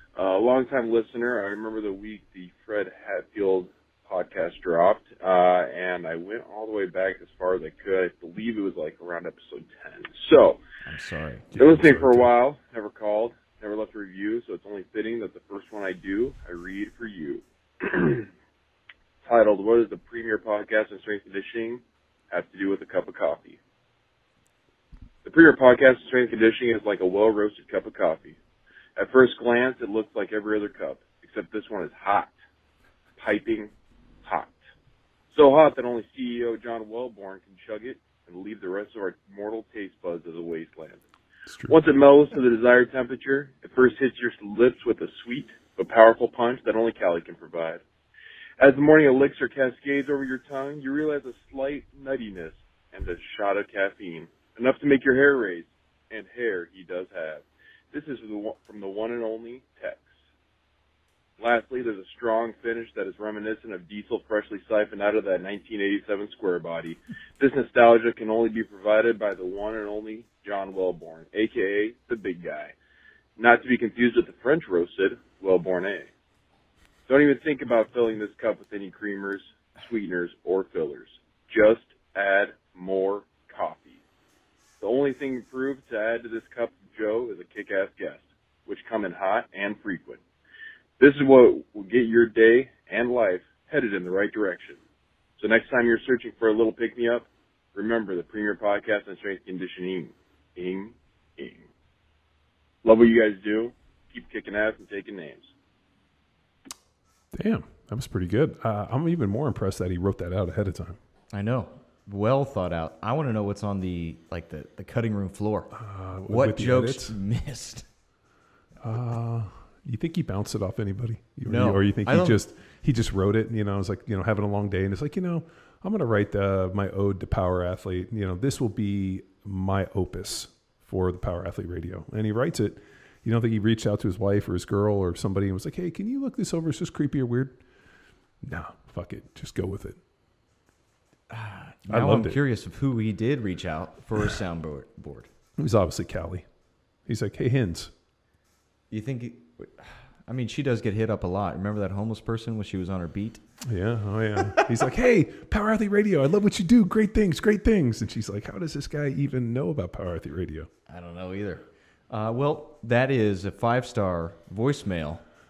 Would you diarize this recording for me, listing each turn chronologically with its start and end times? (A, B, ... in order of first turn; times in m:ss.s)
0:00.2-0:10.6 A
0:10.8-0:11.6 B
0:11.6-0:12.3 C
0:11.6-0:18.3 A
0:19.2-0:23.6 A
0:25.2-0:28.4 A
0:29.0-0:32.3 A
0:33.2-0:33.7 A
0:34.2-0:34.6 A
0:35.3-0:41.0 A
0:41.5-0:41.8 C
0:41.7-0:47.8 A
0:48.6-1:00.1 A
1:01.4-1:12.7 A
1:13.4-1:16.1 A
1:17.1-1:24.0 A
1:24.8-1:30.2 A
1:31.0-1:34.8 A
1:35.4-1:41.7 A
1:42.8-1:45.5 A
1:47.3-1:51.0 C
1:51.3-1:55.7 B
1:55.7-1:57.2 C
1:56.3-1:57.9 B
1:58.8-2:17.6 C
2:01.4-2:02.4 B
2:18.4-2:20.0 C
2:21.3-2:25.3 B
2:21.9-2:22.4 C
2:25.6-2:26.5 C
2:27.0-2:27.9 C
2:28.9-2:33.4 B
2:33.7-2:40.7 C
2:40.9-2:45.2 B